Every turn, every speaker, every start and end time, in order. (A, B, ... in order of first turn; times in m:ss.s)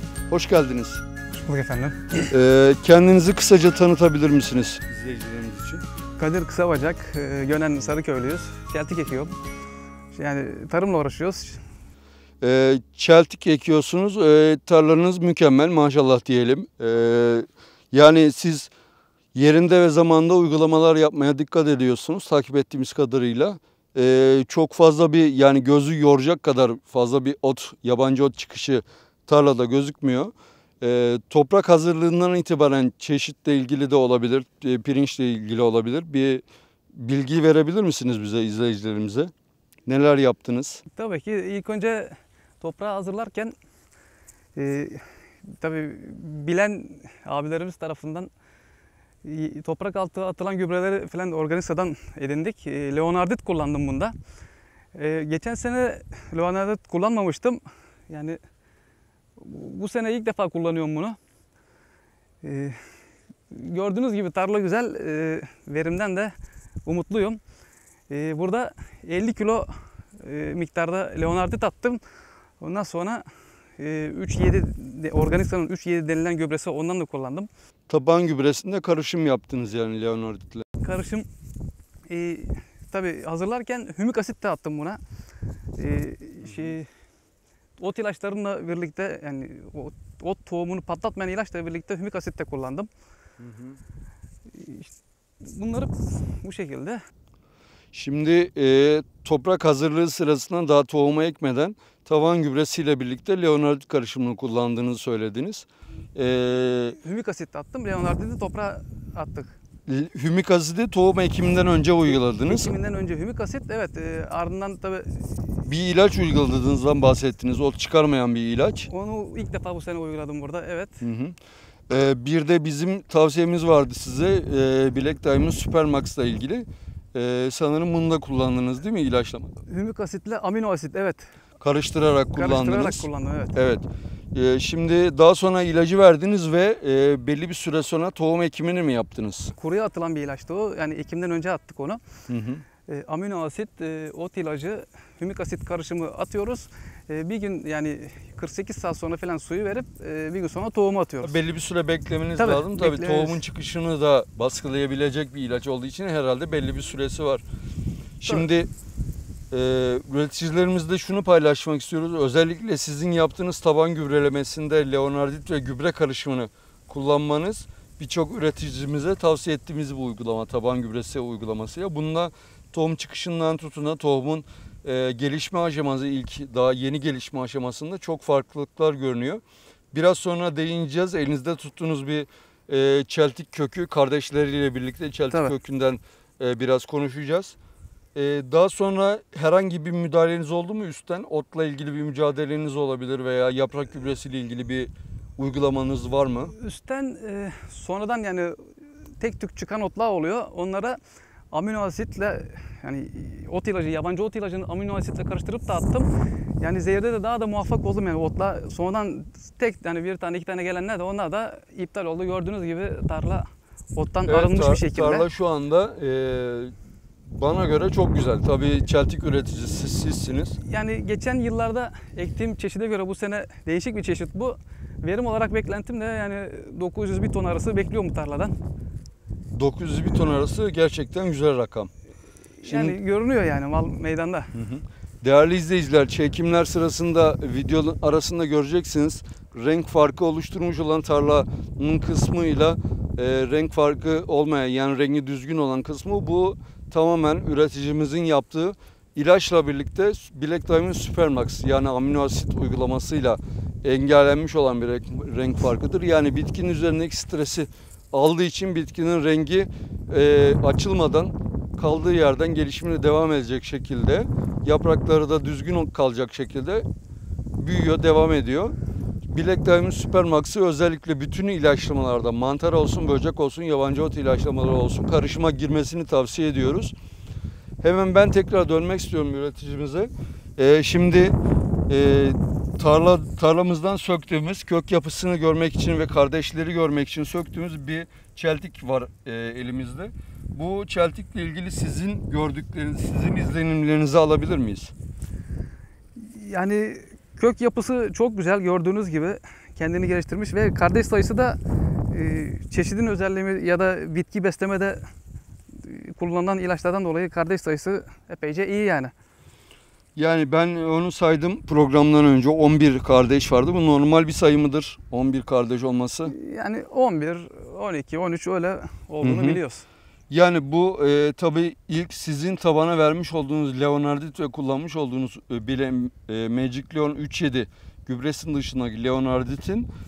0:00.3-0:01.0 A
0:01.3-0:02.3 B
0:02.3-0:05.8 A
0:06.2-0:09.3 B
0:10.1-0:11.6 B
0:12.4-0:18.7 A
0:19.3-0:39.3 A
0:39.8-0:40.8 A
0:40.9-0:43.5 B
0:44.6-0:48.3 B
0:49.2-0:54.1 B
0:54.9-0:58.4 B
0:59.4-1:01.2 B
1:02.4-1:02.8 B
1:03.5-1:07.4 B
1:08.1-1:12.0 B
1:12.6-1:13.2 B
1:13.8-1:17.5 B
1:17.9-1:20.6 A
1:20.8-1:21.3 B
1:22.1-1:25.0 B
1:25.8-1:26.9 B
1:26.4-1:26.7 A
1:27.8-1:32.9 B
1:33.4-1:33.8 A
1:34.5-1:34.9 B
1:35.4-1:37.0 B
1:37.9-1:47.0 A
1:47.0-1:49.6 B
1:49.9-1:52.7 A
1:52.1-1:55.3 B
1:55.6-1:58.9 A
1:58.9-2:01.0 B
2:01.0-2:01.4 A
2:01.9-2:09.5 A
2:09.7-2:11.3 B
2:11.6-2:19.5 A
2:12.4-2:13.5 B
2:19.5-2:22.0 B
2:22.3-2:22.6 A
2:22.9-2:31.4 B
2:31.2-2:37.4 A
2:32.4-2:33.4 B
2:38.2-2:38.7 A
2:39.5-3:07.6 A
3:08.1-3:16.5 A
3:16.5-3:21.0 B
3:21.5-3:26.1 B
3:26.6-3:35.3 B
3:34.2-3:40.6 A
3:40.6-3:48.5 B
3:49.5-3:51.9 A
3:52.6-3:54.5 B
3:52.6-3:53.0 A
3:54.5-4:26.8 A
4:27.6-4:28.7 A
4:29.3-4:36.9 A
4:37.8-4:41.4 A
4:41.9-4:54.9 A
4:56.2-5:01.6 B
5:02.1-5:05.0 B
5:05.7-5:09.1 B
5:10.2-5:16.3 A
5:16.3-5:19.8 B
5:19.2-5:19.6 A
5:20.3-5:29.9 A